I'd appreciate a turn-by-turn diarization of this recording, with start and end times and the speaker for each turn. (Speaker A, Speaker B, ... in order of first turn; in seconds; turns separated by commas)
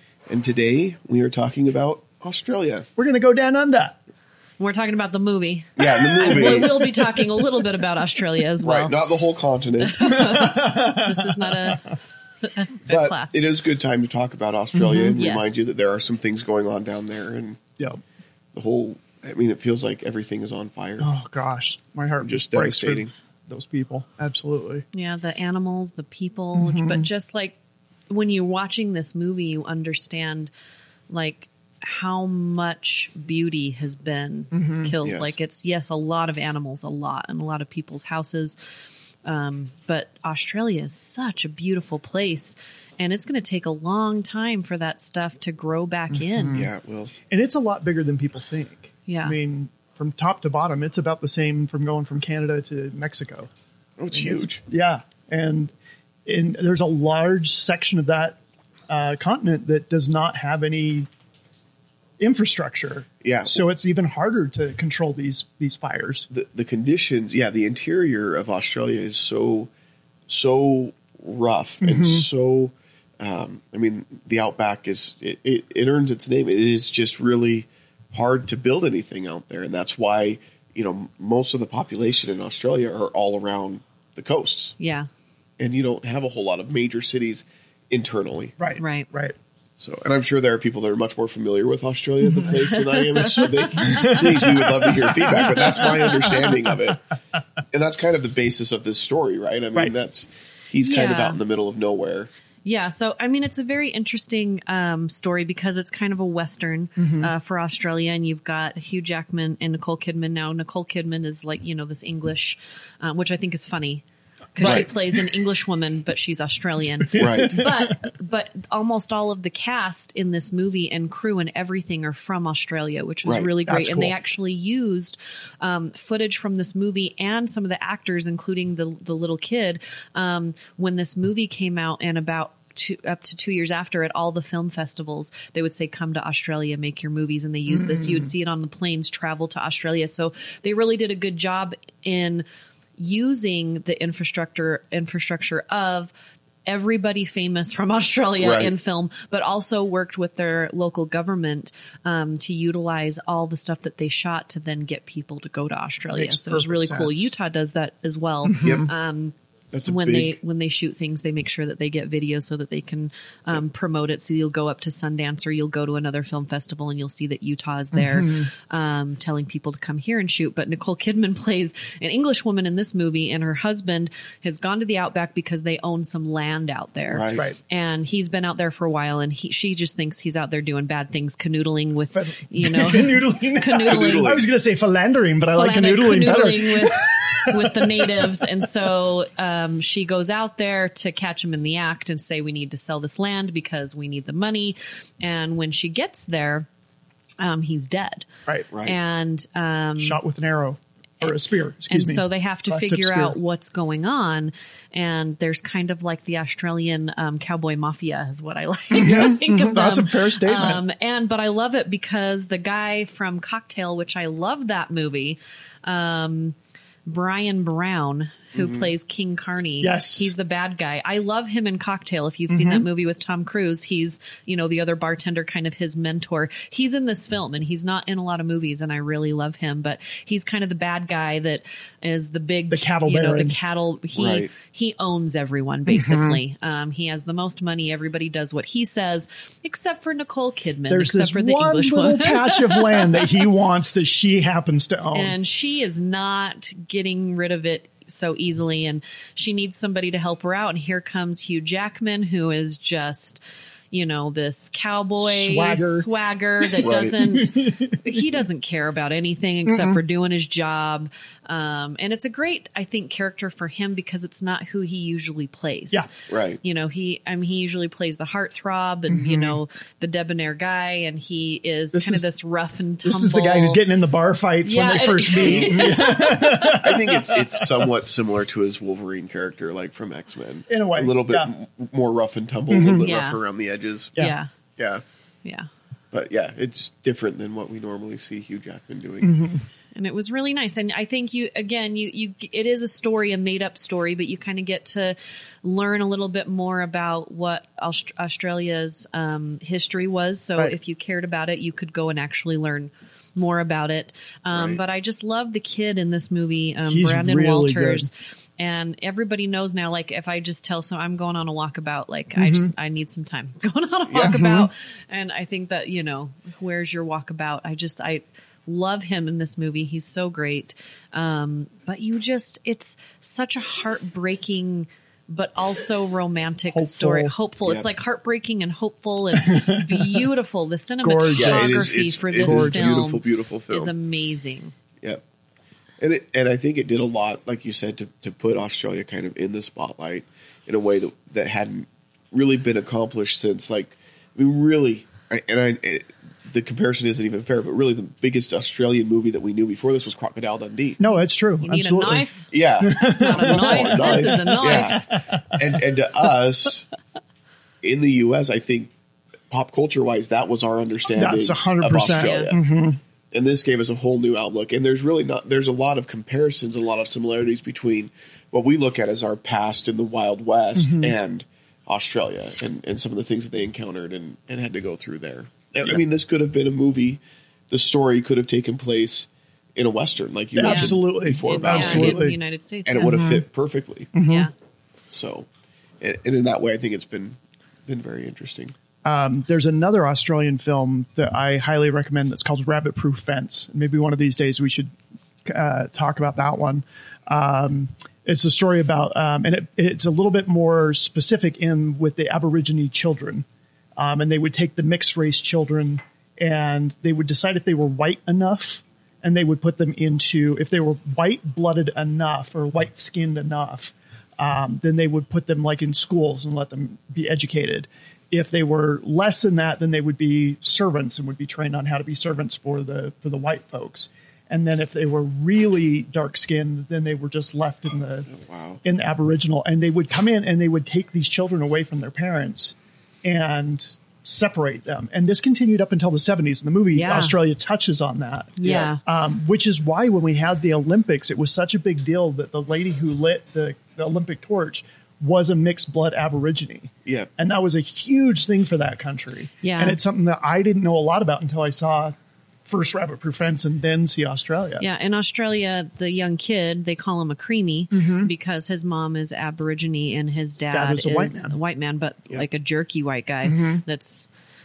Speaker A: 0.3-2.9, Speaker B: 3.0-4.0, Speaker C: 4.6-9.0, Speaker A: 5.8-7.0, Speaker B: 6.2-6.7, Speaker A: 8.6-10.4, Speaker C: 9.8-13.4, Speaker B: 10.1-11.9, Speaker A: 12.9-17.6, Speaker B: 14.8-15.2, Speaker C: 15.1-15.6, Speaker A: 18.5-21.1, Speaker B: 21.0-24.9, Speaker A: 22.2-23.1, Speaker C: 24.9-27.6, Speaker B: 26.6-27.1, Speaker C: 28.1-30.5, Speaker C: 31.1-38.6, Speaker B: 34.5-34.9, Speaker A: 35.0-35.3, Speaker C: 39.2-46.7, Speaker B: 46.1-46.7, Speaker A: 46.5-47.1, Speaker B: 47.3-53.5, Speaker C: 49.1-49.4, Speaker A: 54.0-54.6, Speaker B: 54.6-55.7, Speaker B: 56.2-58.4, Speaker B: 58.9-61.1, Speaker B: 62.2-66.3, Speaker A: 63.2-63.6, Speaker A: 66.3-69.7, Speaker A: 70.3-84.8, Speaker B: 71.8-72.3, Speaker C: 84.8-85.1, Speaker A: 85.6-88.5, Speaker B: 88.6-89.4, Speaker C: 88.8-89.1, Speaker A: 89.8-97.0, Speaker B: 92.2-92.6, Speaker C: 92.7-94.4, Speaker B: 93.8-96.8, Speaker A: 97.7-102.3, Speaker C: 100.8-101.4, Speaker C: 102.7-114.0, Speaker B: 107.0-107.3, Speaker C: 114.5-142.4, Speaker B: 114.6-114.9, Speaker A: 114.6-114.9, Speaker B: 117.0-117.9, Speaker A: 117.2-117.7, Speaker B: 123.7-124.2, Speaker B: 137.7-138.3, Speaker C: 143.0-146.1, Speaker C: 146.7-159.3, Speaker A: 148.4-148.7, Speaker B: 156.1-157.3, Speaker B: 158.5-158.9, Speaker A: 158.6-158.9, Speaker A: 159.7-160.4, Speaker C: 159.9-184.3, Speaker B: 167.9-168.5, Speaker A: 177.1-177.4, Speaker B: 182.1-188.4, Speaker A: 183.8-184.5, Speaker C: 185.5-196.7, Speaker C: 197.4-198.3, Speaker A: 198.7-199.0, Speaker C: 198.8-200.2, Speaker B: 200.0-203.4, Speaker C: 201.9-243.4, Speaker B: 208.9-210.8, Speaker A: 218.6-218.9, Speaker B: 219.8-220.3, Speaker B: 222.5-222.9, Speaker B: 232.7-233.6, Speaker A: 234.1-234.5, Speaker B: 235.9-236.4, Speaker B: 240.9-245.3, Speaker C: 245.1-253.4, Speaker C: 253.9-266.1, Speaker B: 255.2-256.1, Speaker B: 256.6-258.4, Speaker A: 256.8-257.2, Speaker B: 259.7-260.0, Speaker A: 266.3-266.6, Speaker C: 266.6-273.8, Speaker B: 269.1-269.6, Speaker B: 271.9-272.3, Speaker B: 273.0-277.9, Speaker C: 274.6-276.9, Speaker A: 275.4-276.1, Speaker A: 276.8-284.2, Speaker B: 280.7-281.5, Speaker B: 282.7-283.1, Speaker C: 283.0-283.4, Speaker C: 284.2-284.5, Speaker A: 284.8-285.0, Speaker A: 286.1-289.4, Speaker B: 289.2-289.6, Speaker C: 290.0-334.7, Speaker A: 304.5-304.8, Speaker B: 306.9-308.1, Speaker B: 312.4-312.7, Speaker A: 314.1-314.4, Speaker B: 314.2-314.7, Speaker B: 326.7-327.4, Speaker B: 329.4-330.3, Speaker B: 331.0-333.0, Speaker A: 331.4-333.9, Speaker A: 336.0-351.0, Speaker B: 351.0-352.3, Speaker C: 351.6-355.1, Speaker A: 352.5-356.9, Speaker B: 352.8-355.8, Speaker A: 357.8-358.9, Speaker A: 359.5-362.6, Speaker B: 361.1-363.0, Speaker C: 362.1-362.6, Speaker A: 363.3-382.3, Speaker B: 370.8-371.1, Speaker B: 380.6-382.4, Speaker C: 380.6-383.3, Speaker A: 382.9-384.1, Speaker B: 383.0-383.4, Speaker B: 384.1-384.5, Speaker C: 384.2-384.5, Speaker A: 385.1-385.5, Speaker A: 386.0-388.8, Speaker B: 389.1-394.9, Speaker B: 395.4-403.5, Speaker B: 404.0-428.3, Speaker A: 428.3-428.8, Speaker B: 428.8-454.9, Speaker C: 436.9-437.4, Speaker C: 438.6-439.0, Speaker A: 438.6-438.9, Speaker C: 449.6-450.0, Speaker C: 454.8-464.3, Speaker B: 457.9-458.3, Speaker B: 460.7-461.6, Speaker B: 463.4-463.8